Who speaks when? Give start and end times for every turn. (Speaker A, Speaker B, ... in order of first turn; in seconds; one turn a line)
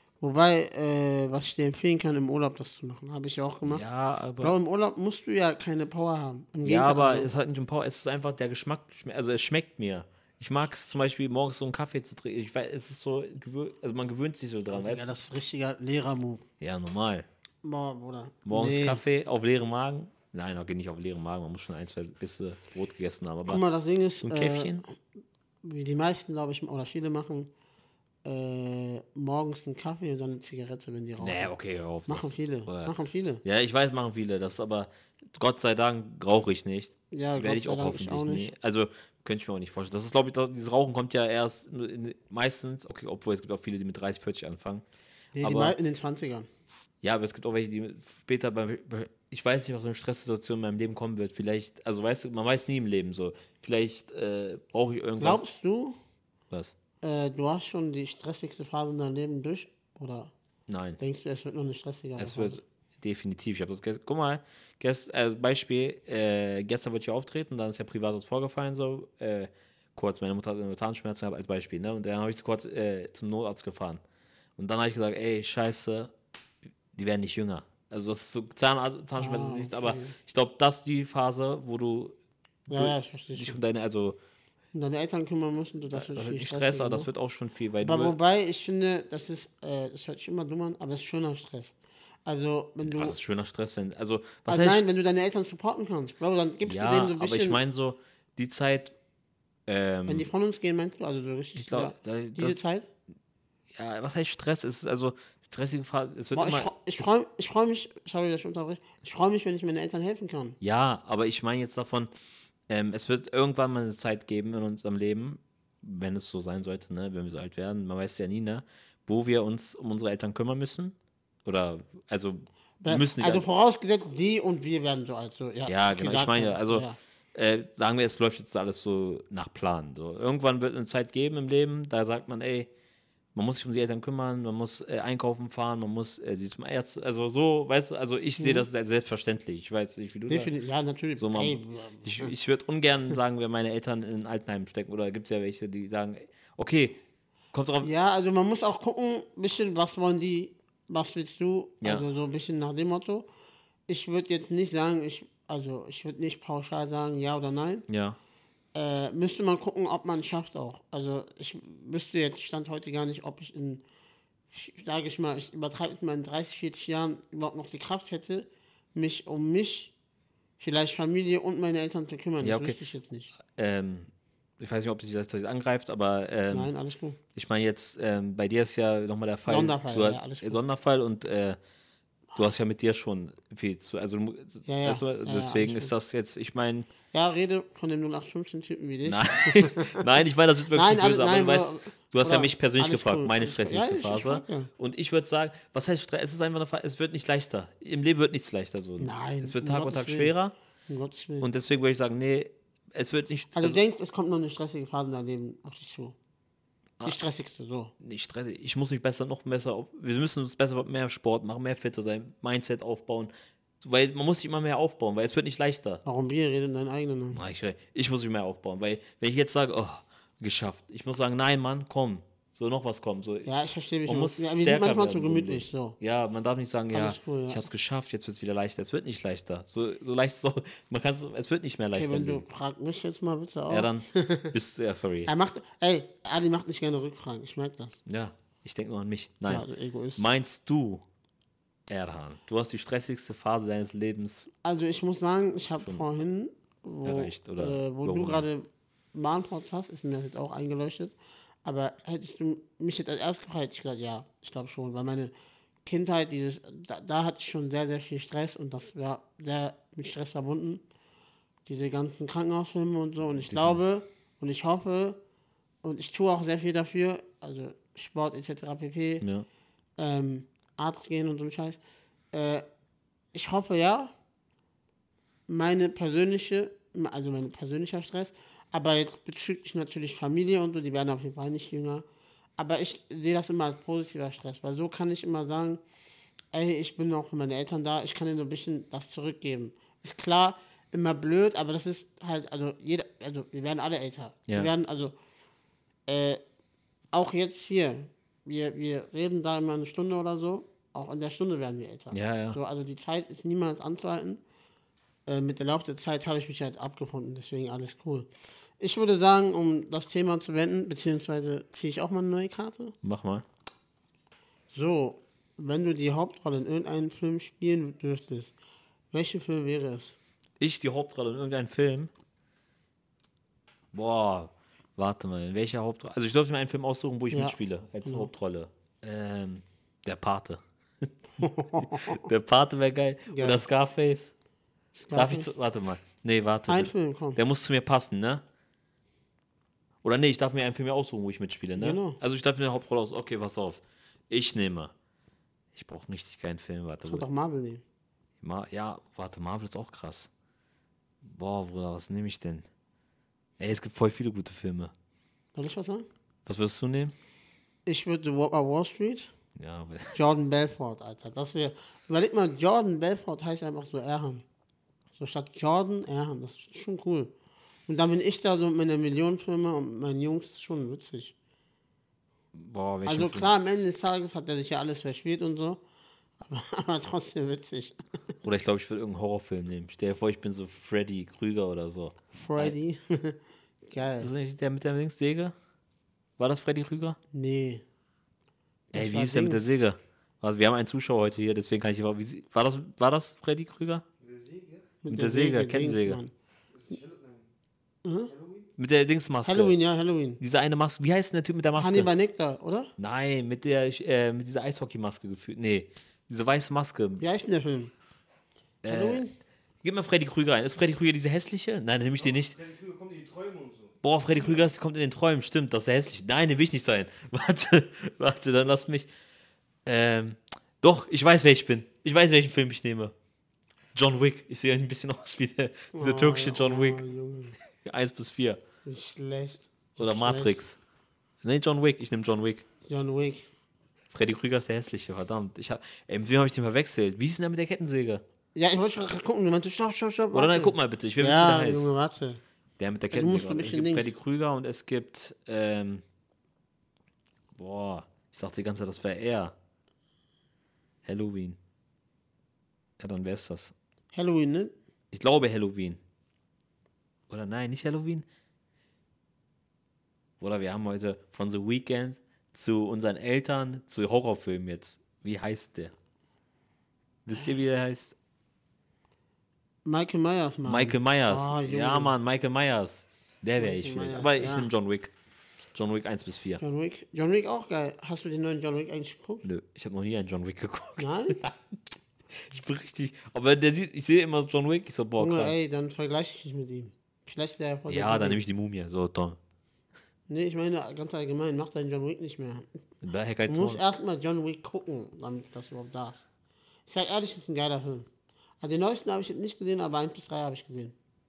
Speaker A: 0.2-3.9
Speaker B: 3.7-4.5
Speaker A: 4.4-7.3
Speaker B: 6.6-15.1
Speaker A: 14.7-16.5
Speaker B: 16.6-17.3
Speaker A: 17.6-19.0
Speaker B: 18.5-23.6
Speaker A: 23.5-24.9
Speaker B: 24.2-24.8
Speaker A: 25.6-27.5
Speaker A: 28.2-31.5
Speaker B: 31.2-32.9
Speaker A: 32.1-33.4
Speaker B: 33.4-44.8
Speaker A: 37.1-38.5
Speaker A: 45.4-46.5
Speaker B: 45.4-45.8
Speaker B: 47.0-55.4
Speaker A: 55.2-56.0
Speaker A: 57.0-60.3
Speaker B: 60.7-61.0
Speaker A: 61.0-62.6
Speaker B: 62.2-74.0
Speaker B: 74.6-76.1
Speaker B: 76.9-82.2
Speaker A: 79.1-80.2
Speaker B: 82.7-84.2
Speaker A: 82.7-83.6
Speaker A: 84.8-87.1
Speaker B: 85.9-88.2
Speaker A: 87.8-91.7
Speaker A: 92.2-93.2
Speaker B: 92.9-94.8
Speaker A: 94.5-97.6
Speaker B: 96.7-99.0
Speaker B: 99.7-100.3
Speaker A: 100.1-102.9
Speaker B: 101.6-102.6
Speaker B: 103.7-107.1
Speaker A: 106.3-110.6
Speaker B: 110.6-112.1
Speaker B: 112.7-123.5
Speaker A: 122.8-127.0
Speaker B: 125.7-132.7
Speaker B: 133.3-140.5
Speaker A: 138.4-138.7
Speaker A: 140.3-142.3
Speaker B: 141.2-147.0
Speaker B: 147.5-147.9
Speaker A: 147.8-153.3
Speaker A: 153.9-157.9
Speaker B: 157.9-158.2
Speaker A: 158.8-163.8
Speaker A: 164.5-169.9
Speaker A: 170.6-173.3
Speaker B: 172.4-172.8
Speaker B: 173.5-176.7
Speaker A: 176.5-177.2
Speaker B: 177.3-181.6
Speaker A: 179.5-180.6
Speaker B: 182.4-186.9
Speaker A: 184.7-185.9
Speaker A: 187.1-190.1
Speaker B: 189.0-200.5
Speaker A: 190.7-194.7
Speaker A: 199.0-200.3
Speaker A: 200.9-201.5
Speaker B: 201.4-203.8
Speaker A: 203.6-206.2
Speaker A: 207.0-207.9
Speaker B: 208.0-213.3
Speaker B: 213.8-216.0
Speaker A: 216.1-217.4
Speaker B: 217.3-223.5
Speaker A: 223.4-226.0
Speaker B: 224.1-232.4
Speaker A: 226.9-227.7
Speaker A: 231.9-234.5
Speaker B: 233.7-235.3
Speaker A: 235.3-238.0
Speaker B: 238.1-241.0
Speaker A: 239.5-240.3
Speaker B: 241.9-244.5
Speaker A: 244.6-255.3
Speaker B: 247.0-248.5
Speaker A: 255.8-260.8
Speaker A: 261.7-265.2
Speaker B: 263.4-263.8
Speaker A: 265.8-269.3
Speaker A: 270.0-271.8
Speaker A: 272.3-272.7
Speaker A: 273.3-274.1
Speaker A: 275.5-282.1
Speaker A: 282.6-285.8
Speaker A: 286.5-295.1
Speaker A: 296.1-296.4
Speaker A: 297.1-304.4
Speaker B: 302.1-302.6
Speaker A: 305.3-308.3
Speaker A: 308.8-312.9
Speaker B: 313.0-313.4
Speaker A: 314.7-318.5
Speaker A: 319.1-320.2
Speaker B: 320.6-322.1
Speaker B: 323.9-334.3
Speaker A: 327.3-328.3
Speaker A: 331.4-332.3
Speaker A: 333.3-333.6
Speaker A: 334.9-335.5
Speaker B: 335.1-338.4
Speaker A: 336.7-337.4
Speaker B: 340.0-344.9
Speaker A: 341.8-342.2
Speaker B: 345.7-347.2
Speaker A: 347.1-347.8
Speaker B: 348.4-350.3
Speaker B: 351.2-352.7
Speaker B: 353.6-354.9
Speaker A: 355.6-356.1
Speaker B: 356.5-357.1
Speaker A: 357.9-359.3
Speaker B: 359.6-360.2
Speaker A: 360.1-364.4
Speaker A: 365.2-367.3
Speaker A: 367.9-371.4
Speaker B: 372.5-373.5
Speaker A: 373.1-375.8
Speaker A: 376.4-378.0
Speaker B: 378.4-382.8
Speaker A: 382.3-384.3
Speaker B: 384.2-385.6
Speaker B: 386.4-387.2
Speaker A: 387.3-387.8
Speaker A: 388.9-389.7
Speaker B: 388.9-394.1
Speaker C: 394.2-394.9
Speaker A: 395.0-396.3
Speaker B: 395.1-396.2
Speaker C: 396.7-397.5
Speaker A: 398.1-398.3
Speaker C: 398.3-398.7
Speaker B: 398.8-399.8
Speaker A: 399.4-400.4
Speaker B: 400.4-402.1
Speaker A: 401.8-402.9
Speaker B: 403.0-407.2
Speaker A: 407.2-407.9
Speaker B: 408.8-409.2
Speaker A: 408.9-409.3
Speaker B: 409.8-412.6
Speaker C: 412.2-414.0
Speaker B: 414.0-419.1
Speaker B: 419.9-423.1
Speaker B: 423.9-427.0
Speaker A: 425.9-427.6
Speaker B: 427.7-428.6
Speaker A: 428.9-430.6
Speaker B: 430.0-430.8
Speaker B: 431.4-432.7
Speaker A: 432.9-433.5
Speaker B: 434.1-438.2
Speaker A: 438.6-442.4
Speaker B: 440.3-441.9
Speaker B: 442.8-446.0
Speaker A: 443.1-444.1
Speaker B: 447.6-449.5
Speaker B: 451.0-451.6
Speaker B: 453.0-453.7
Speaker A: 454.1-454.7
Speaker B: 455.1-456.0
Speaker B: 457.3-458.3
Speaker B: 460.4-465.9
Speaker B: 467.2-468.1
Speaker A: 469.9-472.2
Speaker B: 470.6-475.1
Speaker A: 473.6-474.7
Speaker B: 475.8-476.6
Speaker A: 476.6-479.4
Speaker B: 479.4-481.8
Speaker A: 481.0-481.4
Speaker B: 482.3-485.6
Speaker A: 485.2-488.4
Speaker B: 487.9-489.4
Speaker A: 490.3-492.7
Speaker B: 493.0-493.8
Speaker A: 493.5-496.2
Speaker A: 496.9-498.1
Speaker A: 498.6-500.9